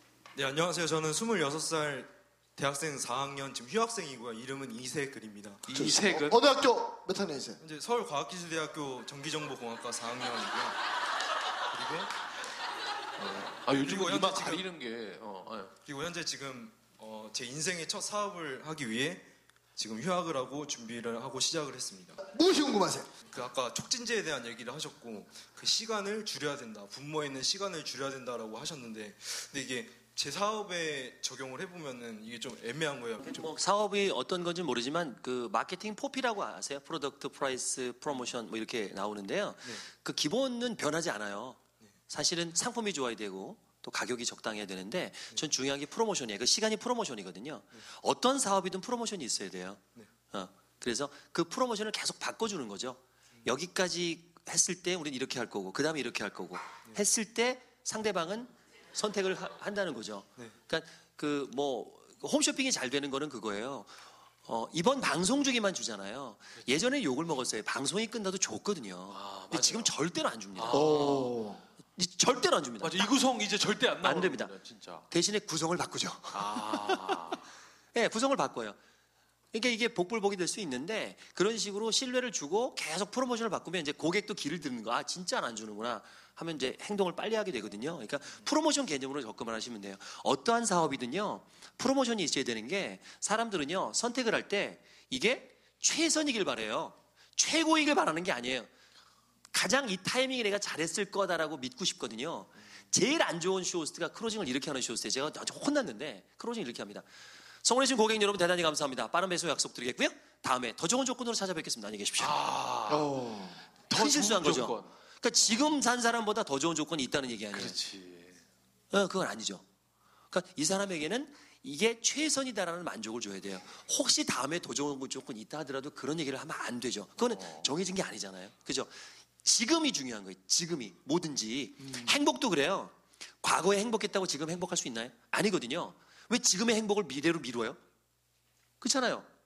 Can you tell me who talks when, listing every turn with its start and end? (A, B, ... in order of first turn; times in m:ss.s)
0:00.3-0:06.3 A
0:05.7-0:06.4 B
0:05.7-0:07.6 C
0:07.6-0:10.8 A
0:11.7-0:12.1 A
0:13.2-0:15.7 B
0:13.4-0:14.7 A
0:15.8-0:22.2 A
0:22.2-0:23.1 C
0:23.3-0:33.5 A
0:33.2-1:11.0 D
1:09.1-1:09.9 B
1:10.5-1:11.4 B
1:10.7-1:11.6 C
1:12.0-1:13.0 D
1:12.8-1:15.1 B
1:14.0-1:14.5 D
1:15.1-1:17.4 D
1:16.3-1:17.5 B
1:17.9-1:18.8 D
1:19.5-1:38.7 D
1:39.5-1:47.1 D
1:47.6-1:52.4 D
1:52.2-1:53.1 B
1:52.9-1:53.6 C
1:53.9-1:54.9 B
1:53.9-1:57.8 D
1:57.5-1:58.4 B
1:58.9-1:59.6 D
2:00.3-2:17.8 D
2:07.2-2:07.7 B
2:18.8-2:19.3 D